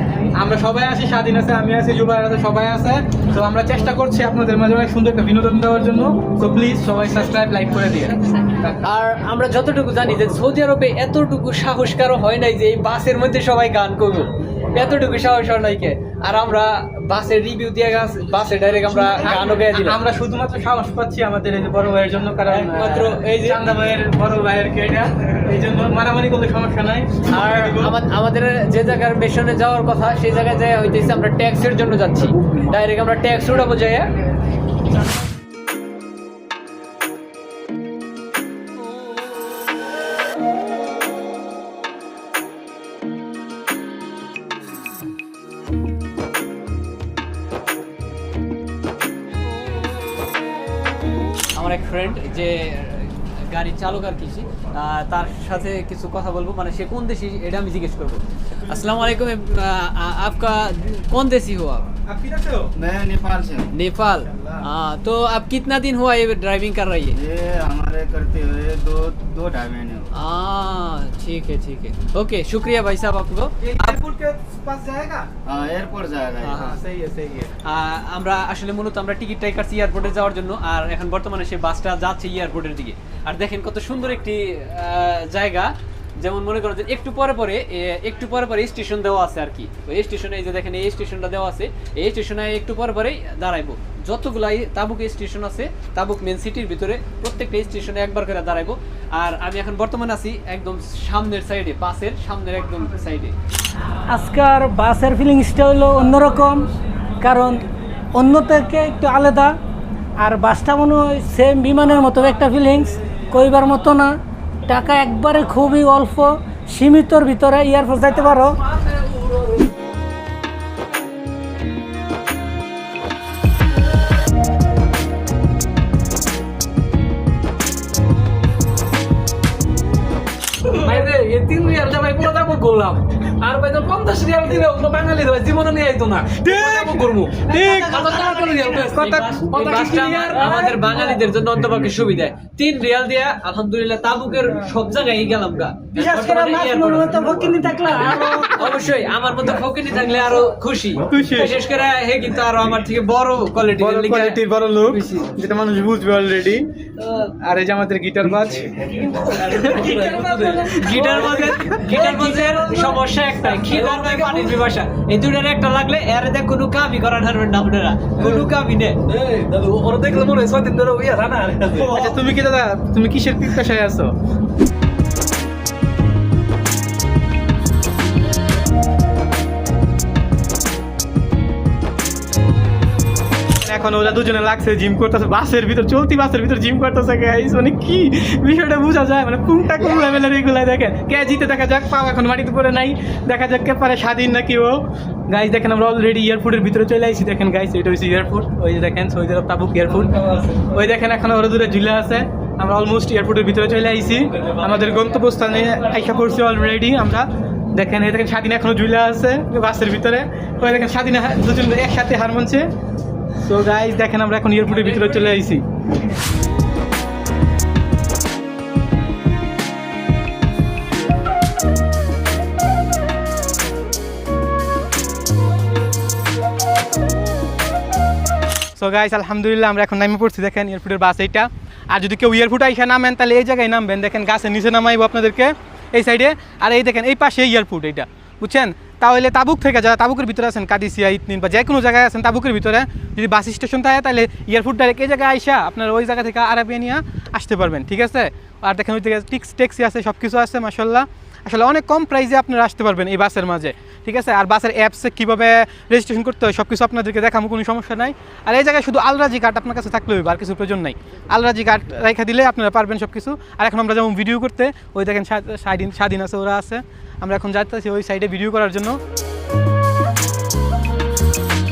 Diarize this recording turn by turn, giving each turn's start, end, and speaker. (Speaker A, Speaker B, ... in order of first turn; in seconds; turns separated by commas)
Speaker A: 0.4-8.8, Speaker B: 8.8-20.0, Speaker A: 18.9-28.0, Speaker B: 22.5-23.6, Speaker B: 27.3-34.1, Speaker B: 51.5-61.9, Speaker A: 62.0-62.7, Speaker C: 62.8-63.7, Speaker B: 63.7-67.2, Speaker A: 64.2-64.6, Speaker C: 67.1-70.1, Speaker B: 70.1-74.0, Speaker A: 73.6-75.3, Speaker C: 75.5-76.7, Speaker B: 76.4-76.8, Speaker A: 76.5-77.5, Speaker B: 77.6-85.7, Speaker B: 86.2-103.3, Speaker D: 104.1-106.7, Speaker D: 107.2-107.6, Speaker D: 108.1-109.5, Speaker D: 110.2-114.1, Speaker D: 114.7-118.6, Speaker E: 118.8-119.6, Speaker E: 130.7-140.8, Speaker A: 136.4-139.4, Speaker B: 137.5-147.2, Speaker D: 145.9-148.8, Speaker B: 148.6-155.3, Speaker A: 151.1-151.6, Speaker A: 153.8-156.7, Speaker A: 157.4-161.7, Speaker E: 159.1-164.7, Speaker B: 160.7-168.9, Speaker E: 169.1-172.1, Speaker A: 171.8-174.1, Speaker A: 183.6-212.7, Speaker B: 200.1-200.6, Speaker B: 204.4-205.2, Speaker A: 213.4-215.6, Speaker A: 228.8-269.0